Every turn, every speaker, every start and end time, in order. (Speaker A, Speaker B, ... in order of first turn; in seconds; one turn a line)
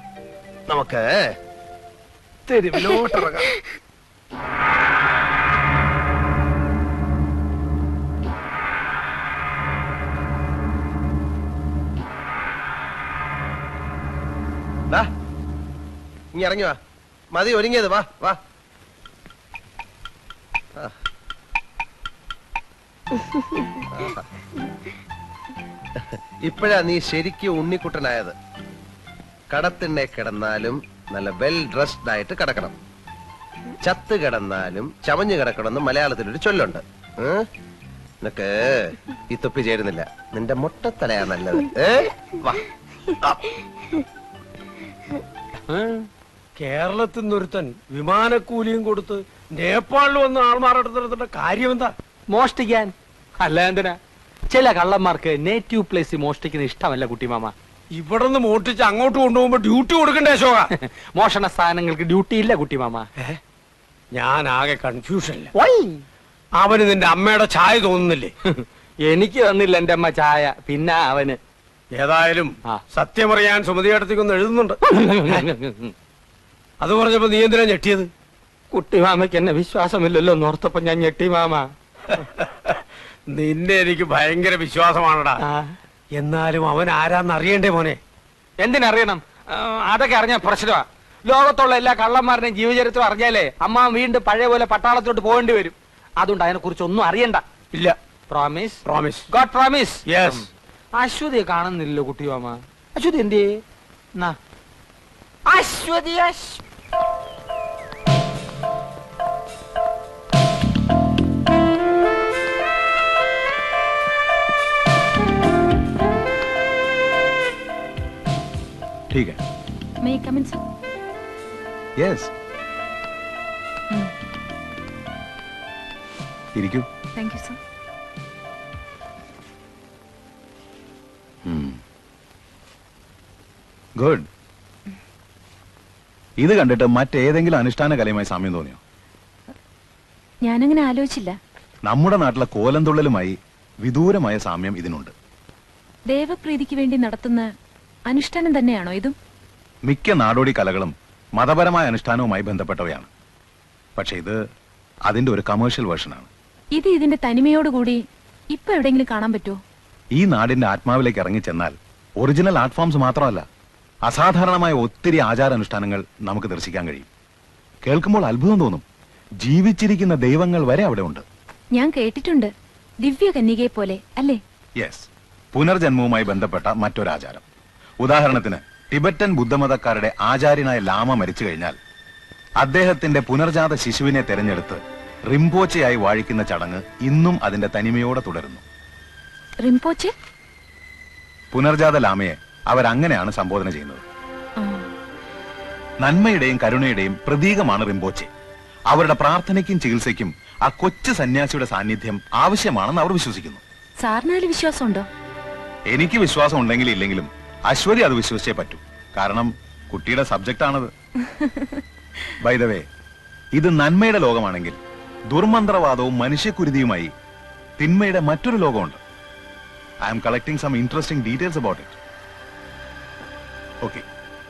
Speaker A: 0.7-1.3
Speaker A: 2.5-3.5
Speaker A: 16.3-16.8
Speaker A: 17.3-18.4
Speaker A: 23.9-24.2
Speaker A: 26.0-28.4
Speaker A: 29.5-32.8
Speaker A: 33.8-37.5
Speaker A: 38.2-42.6
Speaker B: 45.7-46.0
Speaker C: 46.6-51.9
Speaker B: 52.3-54.0
Speaker B: 54.5-57.5
Speaker C: 57.9-60.7
Speaker B: 60.8-63.1
Speaker C: 64.1-65.5
Speaker B: 65.6-66.0
Speaker C: 66.6-68.3
Speaker B: 68.5-71.4
Speaker C: 71.9-75.5
Speaker B: 74.9-75.9
Speaker C: 76.8-78.1
Speaker B: 78.7-81.7
Speaker C: 82.1-85.4
Speaker C: 86.2-88.0
Speaker B: 88.6-97.4
Speaker B: 98.3-98.8
Speaker C: 98.8-99.3
Speaker B: 99.3-100.4
Speaker C: 100.0-100.5
Speaker B: 101.0-103.6
Speaker B: 105.5-106.6
Speaker D: 119.1-119.4
Speaker E: 120.0-120.6
Speaker D: 122.0-122.3
Speaker D: 126.5-126.9
Speaker E: 127.2-127.6
Speaker D: 131.4-131.8
Speaker D: 134.0-134.2
Speaker D: 136.4-138.8
Speaker E: 140.4-141.4
Speaker D: 141.9-145.1
Speaker E: 146.1-147.5
Speaker E: 148.1-149.1
Speaker D: 149.9-153.1
Speaker D: 154.0-154.4
Speaker D: 155.1-156.3
Speaker E: 156.8-159.6
Speaker D: 160.1-163.4
Speaker D: 164.1-167.1
Speaker D: 167.8-168.8
Speaker D: 169.4-171.2
Speaker E: 171.8-172.5
Speaker E: 173.0-174.4
Speaker D: 174.8-177.4
Speaker D: 178.0-181.8
Speaker D: 182.6-188.6
Speaker E: 189.6-190.1
Speaker D: 191.5-194.0
Speaker E: 194.6-194.9
Speaker D: 196.0-198.3
Speaker D: 198.9-203.6
Speaker E: 204.0-205.1
Speaker D: 205.9-210.9
Speaker E: 211.3-211.6
Speaker D: 212.4-212.9
Speaker D: 213.5-214.8
Speaker D: 215.3-217.1
Speaker D: 217.8-219.0
Speaker D: 220.0-221.9